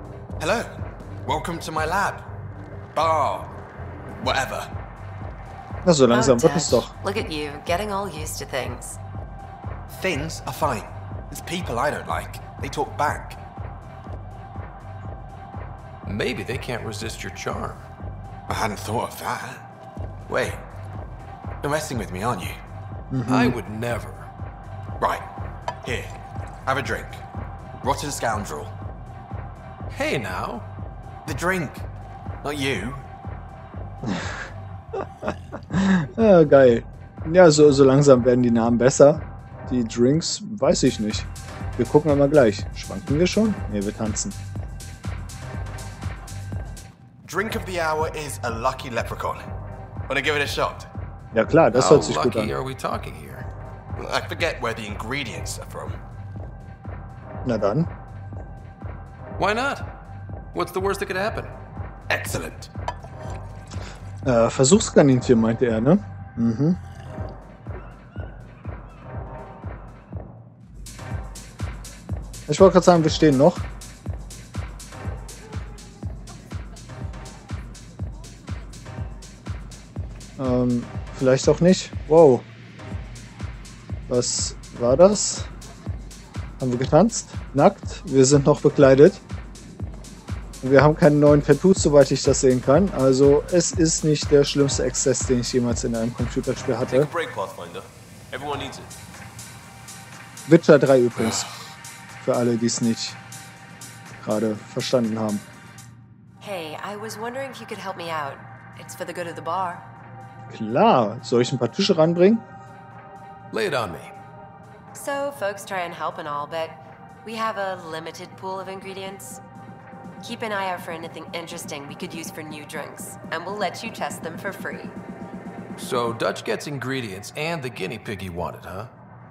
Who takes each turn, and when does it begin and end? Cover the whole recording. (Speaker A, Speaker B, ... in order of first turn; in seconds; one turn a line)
Speaker A: 0.4-0.7
Speaker A: 1.2-2.3
Speaker A: 3.0-3.5
Speaker A: 4.1-4.7
Speaker B: 5.8-6.9
Speaker C: 6.1-9.0
Speaker A: 9.9-13.4
Speaker D: 16.1-17.8
Speaker A: 18.5-19.6
Speaker A: 20.3-20.6
Speaker A: 21.6-22.6
Speaker B: 23.1-23.6
Speaker D: 23.3-24.3
Speaker A: 25.8-26.1
Speaker A: 26.7-27.2
Speaker A: 27.8-28.7
Speaker D: 29.9-30.7
Speaker A: 31.2-31.9
Speaker A: 32.4-33.0
Speaker B: 34.0-34.4
Speaker B: 35.2-44.4
Speaker A: 47.2-49.5
Speaker A: 50.1-50.9
Speaker B: 51.3-52.5
Speaker D: 51.7-53.5
Speaker A: 54.0-56.0
Speaker B: 57.4-57.9
Speaker D: 59.4-59.9
Speaker D: 60.5-61.5
Speaker A: 62.1-62.7
Speaker B: 64.2-66.8
Speaker B: 72.5-73.6
Speaker B: 80.4-82.5
Speaker B: 84.1-85.5
Speaker B: 86.6-89.2
Speaker B: 90.6-97.1
Speaker E: 96.9-98.9
Speaker B: 100.5-101.5
Speaker A: 101.2-101.5
Speaker B: 102.2-103.2
Speaker B: 104.1-105.4
Speaker C: 106.4-109.8
Speaker B: 110.5-112.4
Speaker D: 113.5-114.1
Speaker C: 114.9-119.4
Speaker C: 120.2-125.0
Speaker D: 125.8-128.9